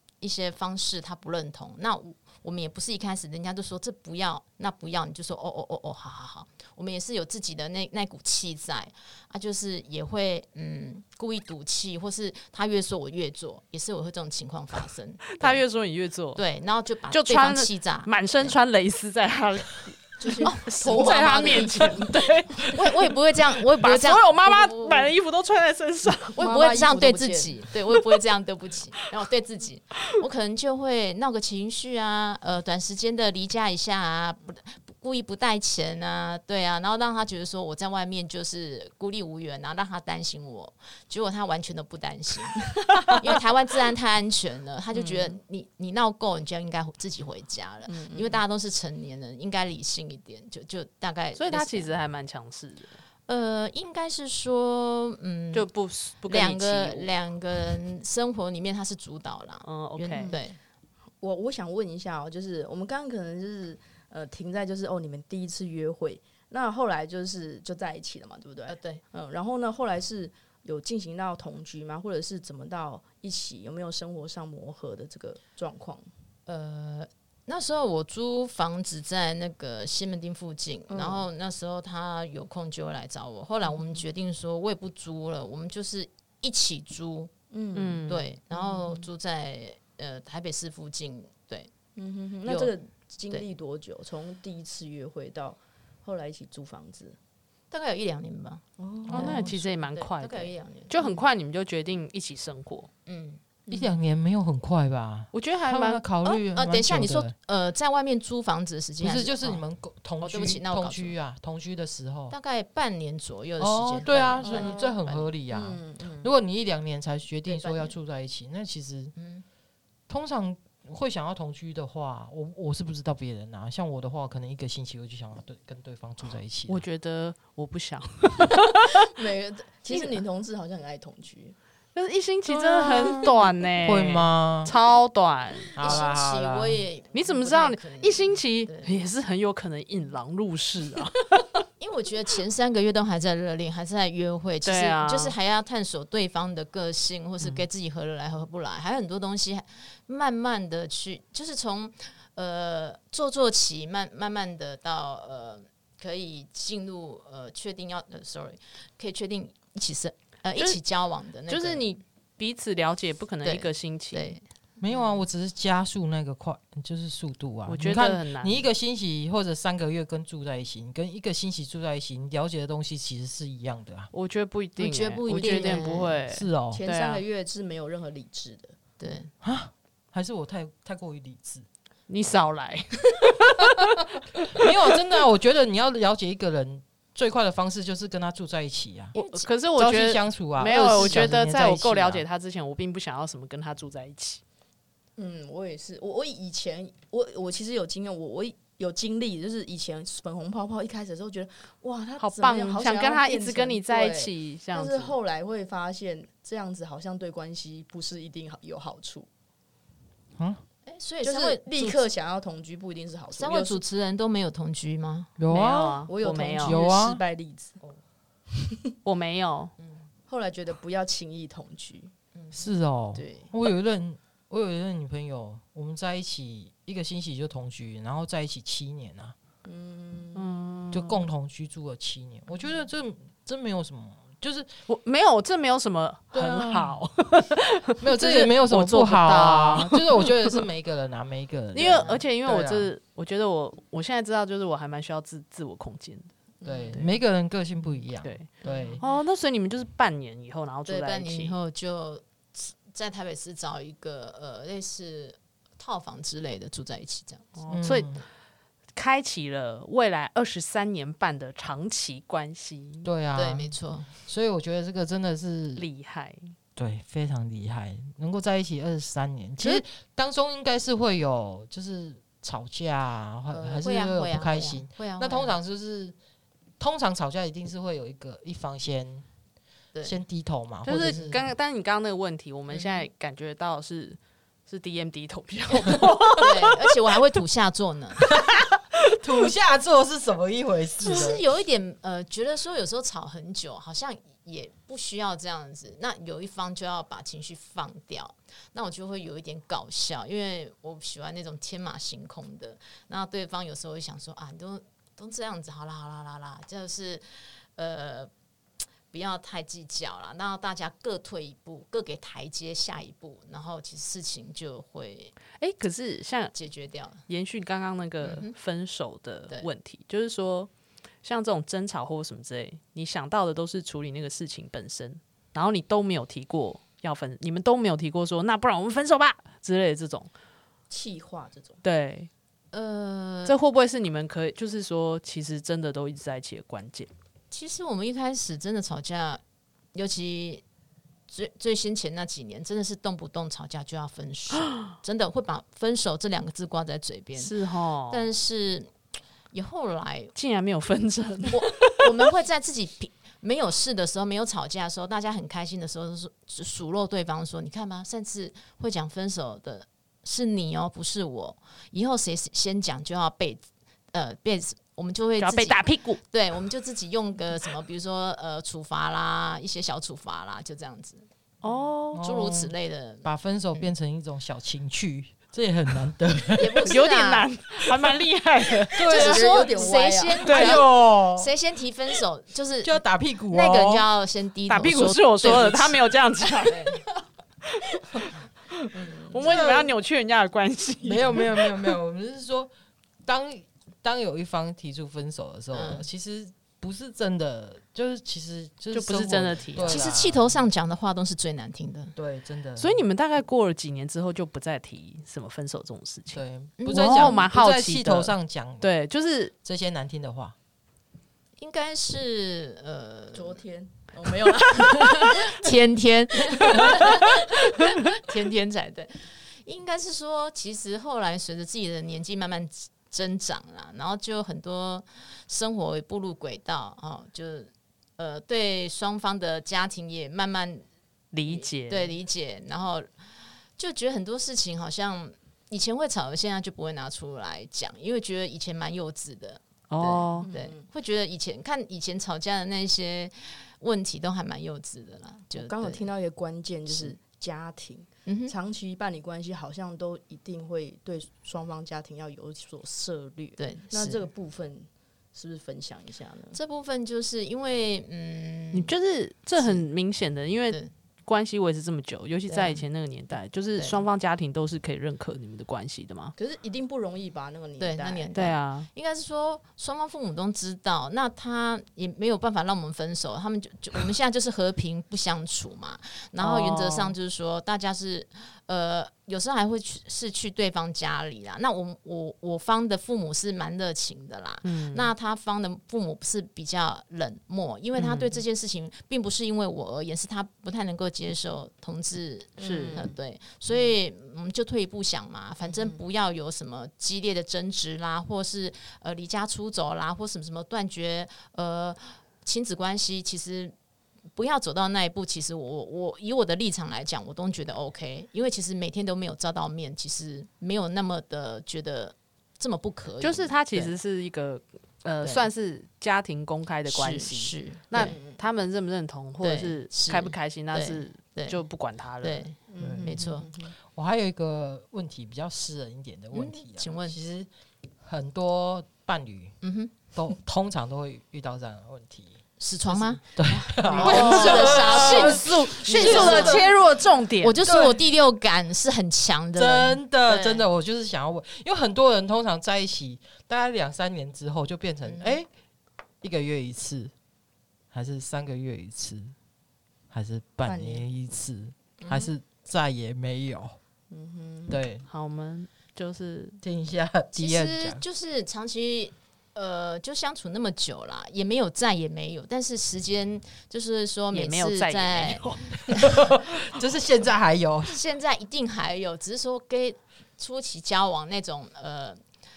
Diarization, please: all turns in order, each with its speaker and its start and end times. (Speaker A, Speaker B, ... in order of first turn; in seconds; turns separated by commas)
Speaker A: 0.2-15.6, Speaker B: 15.4-16.4, Speaker A: 16.4-18.6, Speaker B: 17.1-22.9, Speaker C: 20.2-22.7, Speaker A: 20.4-22.0, Speaker A: 22.6-25.1, Speaker B: 23.8-26.5, Speaker C: 26.4-27.5, Speaker A: 26.4-51.9, Speaker C: 44.9-45.4, Speaker C: 47.9-48.4, Speaker B: 51.4-53.0, Speaker A: 53.3-55.7, Speaker B: 55.5-57.1, Speaker A: 56.3-60.6, Speaker B: 59.6-60.3, Speaker C: 61.2-76.0, Speaker A: 68.7-69.0, Speaker A: 76.5-87.3, Speaker C: 80.9-81.3, Speaker C: 83.7-84.0, Speaker C: 87.5-89.1, Speaker B: 87.7-88.2, Speaker A: 88.1-91.7, Speaker C: 92.0-97.2, Speaker A: 92.5-92.7, Speaker A: 97.7-98.6, Speaker C: 98.8-99.5, Speaker D: 99.1-99.6, Speaker B: 99.1-102.9, Speaker A: 99.2-100.9, Speaker A: 103.1-103.4, Speaker D: 103.7-107.3, Speaker B: 105.3-106.0, Speaker A: 106.3-109.6, Speaker D: 109.0-112.3, Speaker A: 110.2-111.2, Speaker A: 112.3-115.3, Speaker D: 113.6-119.1, Speaker C: 114.4-114.9, Speaker C: 115.5-116.3, Speaker A: 117.5-118.0, Speaker A: 119.2-119.5, Speaker D: 120.1-126.8, Speaker B: 126.7-129.1, Speaker C: 129.0-131.6, Speaker B: 131.9-135.8, Speaker C: 132.8-133.3, Speaker D: 133.8-134.7, Speaker D: 135.7-136.8, Speaker A: 135.8-139.0, Speaker B: 137.1-141.6, Speaker A: 141.8-161.9, Speaker B: 144.6-145.3, Speaker B: 160.6-160.8, Speaker B: 161.5-164.3, Speaker A: 163.4-165.2, Speaker D: 164.8-174.1, Speaker B: 167.7-168.6, Speaker B: 174.1-177.2, Speaker A: 174.8-176.1, Speaker C: 175.3-176.0, Speaker D: 176.3-176.8, Speaker C: 176.7-178.8, Speaker A: 179.0-179.3, Speaker D: 179.4-181.7, Speaker B: 182.1-184.7, Speaker D: 184.6-189.1, Speaker A: 189.2-189.5, Speaker B: 189.2-194.4, Speaker D: 189.8-192.2, Speaker C: 195.2-209.3, Speaker B: 202.2-205.2, Speaker A: 210.9-212.1, Speaker C: 211.2-213.8, Speaker A: 213.3-215.3, Speaker D: 215.4-217.2, Speaker B: 215.5-216.8, Speaker C: 216.1-217.8, Speaker B: 219.1-219.7, Speaker A: 219.8-220.1, Speaker C: 220.3-222.1, Speaker A: 222.3-222.6, Speaker D: 222.5-229.4, Speaker C: 223.2-223.5, Speaker C: 229.7-230.5, Speaker B: 230.3-231.2, Speaker D: 230.9-234.7, Speaker B: 234.9-240.6, Speaker D: 236.3-237.0, Speaker D: 238.0-242.9, Speaker B: 241.7-246.3, Speaker C: 246.6-247.1, Speaker D: 246.7-249.0, Speaker B: 248.2-251.6, Speaker A: 248.7-249.0, Speaker C: 248.7-249.0, Speaker A: 250.9-257.4, Speaker B: 257.6-258.2, Speaker D: 257.7-258.2, Speaker B: 258.9-263.1, Speaker D: 263.0-265.9, Speaker A: 263.4-264.1, Speaker B: 265.8-266.6, Speaker D: 266.8-276.2, Speaker A: 273.5-275.6, Speaker D: 276.8-279.2, Speaker D: 280.0-281.4, Speaker B: 280.9-286.8, Speaker A: 282.7-283.0, Speaker A: 286.4-288.3, Speaker D: 288.4-291.4, Speaker A: 291.0-308.3, Speaker A: 309.1-315.3, Speaker B: 315.6-316.6, Speaker A: 316.5-317.2, Speaker B: 317.3-320.7, Speaker A: 318.2-318.5, Speaker B: 321.2-330.3, Speaker C: 330.9-331.8, Speaker B: 331.8-332.3, Speaker A: 332.7-333.6, Speaker B: 333.5-337.1, Speaker A: 337.5-339.4, Speaker A: 339.9-340.6, Speaker A: 341.3-347.5, Speaker B: 347.4-348.3, Speaker A: 348.1-348.9, Speaker A: 349.5-350.3, Speaker B: 350.4-352.1, Speaker A: 351.5-371.3, Speaker B: 365.4-366.2, Speaker B: 371.6-372.2, Speaker D: 372.1-376.9, Speaker A: 372.2-373.9, Speaker A: 376.6-377.5, Speaker B: 376.9-379.1, Speaker D: 378.9-379.7, Speaker C: 379.1-380.5, Speaker A: 379.1-387.0, Speaker B: 380.5-380.9, Speaker D: 380.5-381.5, Speaker D: 382.8-384.1, Speaker B: 384.7-387.0, Speaker B: 387.8-391.9, Speaker C: 388.9-389.7, Speaker D: 389.4-389.9, Speaker D: 391.0-392.7, Speaker D: 393.2-400.6, Speaker A: 395.7-396.1, Speaker B: 398.9-400.0, Speaker A: 399.8-402.1, Speaker D: 402.2-403.1, Speaker B: 402.8-409.5, Speaker D: 406.3-408.9, Speaker A: 406.8-407.4, Speaker D: 409.6-410.6, Speaker A: 411.6-413.6, Speaker C: 413.3-415.7, Speaker A: 414.7-430.9, Speaker C: 416.6-417.4, Speaker B: 431.3-432.2, Speaker A: 431.5-433.1, Speaker A: 433.8-446.1, Speaker B: 439.9-440.5, Speaker C: 440.4-440.9, Speaker C: 445.5-456.6, Speaker A: 446.9-447.1, Speaker A: 448.3-448.6, Speaker A: 453.6-454.2, Speaker A: 456.5-458.9, Speaker B: 458.7-466.3, Speaker A: 459.6-459.9, Speaker A: 462.5-462.8, Speaker A: 463.8-464.1, Speaker C: 466.4-468.3, Speaker A: 467.8-503.7, Speaker B: 468.4-468.9, Speaker B: 476.4-477.1, Speaker B: 484.6-485.1, Speaker B: 492.6-493.1, Speaker C: 492.6-493.1, Speaker C: 495.7-496.0, Speaker A: 504.4-514.0, Speaker B: 513.2-522.5, Speaker A: 515.2-515.5, Speaker A: 516.9-518.2, Speaker C: 518.0-518.4, Speaker A: 519.4-521.6, Speaker A: 522.2-523.5, Speaker C: 522.7-523.7, Speaker D: 522.8-523.2, Speaker D: 523.9-527.5, Speaker A: 526.3-527.2, Speaker D: 528.0-529.5, Speaker A: 529.6-529.9, Speaker D: 530.1-536.8, Speaker A: 532.6-536.7, Speaker C: 533.9-535.5, Speaker B: 534.0-537.6, Speaker C: 536.1-536.5, Speaker A: 537.4-540.6, Speaker D: 537.6-538.0, Speaker D: 539.5-545.5, Speaker A: 545.1-545.4, Speaker D: 546.2-547.1, Speaker D: 547.9-549.3, Speaker D: 550.1-553.8, Speaker C: 550.6-551.1, Speaker A: 552.0-552.3, Speaker C: 554.1-554.8, Speaker D: 554.7-555.0, Speaker B: 555.1-556.6, Speaker D: 556.6-558.0, Speaker A: 557.3-566.2, Speaker B: 564.3-566.3, Speaker D: 566.0-568.0, Speaker A: 567.9-572.2